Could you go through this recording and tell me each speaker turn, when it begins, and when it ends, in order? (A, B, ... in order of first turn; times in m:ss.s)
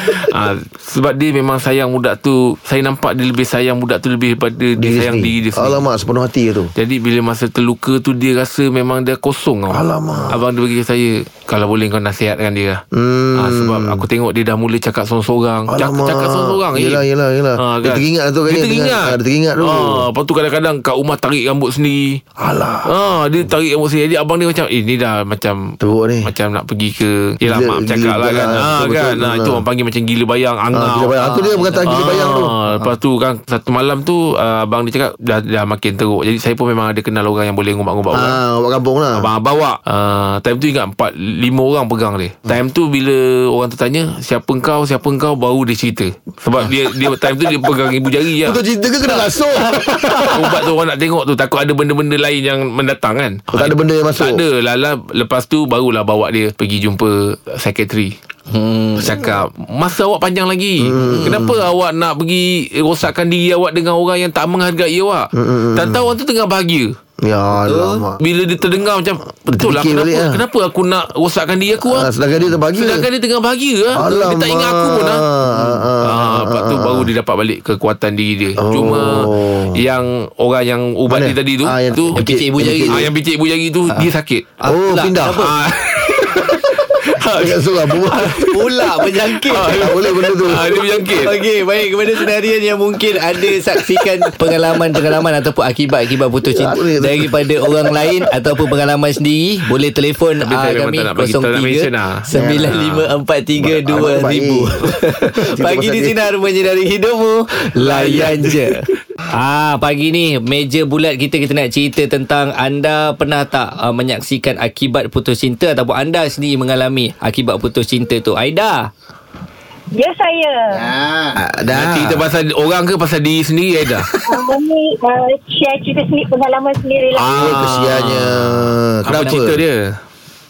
0:00.2-0:05.8 A
0:04.8-0:06.7 B
0:06.8-0:12.8 A
0:09.7-0:10.4 B
0:12.9-0:14.0 B
0:13.4-0:17.0 A
0:15.7-0:20.0 B
0:17.6-0:22.2 A
0:22.4-0:22.9 B
0:22.8-0:38.4 A
0:25.8-0:26.3 B
0:27.4-0:29.6 B
0:30.7-0:32.9 B
0:38.1-0:39.3 B
0:39.1-0:48.6 A
0:48.4-0:50.6 B
0:49.8-0:58.1 A
0:53.5-0:54.4 B
0:58.5-0:59.2 C
0:59.0-1:07.0 A
1:00.8-1:01.6 B
1:01.0-1:01.4 C
1:05.3-1:06.1 B
1:07.2-1:08.2 B
1:07.5-1:08.0 C
1:08.2-1:12.1 A
1:09.5-1:10.4 B
1:11.8-1:13.0 B
1:12.7-1:15.2 A
1:13.9-1:17.1 B
1:15.5-1:15.9 C
1:16.0-1:22.2 A
1:18.6-1:19.8 B
1:21.1-1:23.1 B
1:22.1-1:23.1 C
1:22.9-1:24.6 A
1:24.6-1:25.5 C
1:24.6-1:25.5 B
1:25.4-1:28.8 A
1:27.3-1:28.4 B
1:28.3-1:30.1 C
1:29.5-1:31.4 A
1:29.6-1:30.8 B
1:31.1-1:58.9 C
1:36.5-1:37.3 B
1:40.4-1:42.8 A
1:42.3-1:43.0 B
1:43.6-1:44.8 B
1:45.4-1:46.3 B
1:47.8-1:48.4 B
1:59.9-2:00.9 D
2:00.8-2:02.1 B
2:01.7-2:04.1 A
2:04.2-2:07.5 D
2:07.1-2:10.0 A
2:07.3-2:09.6 B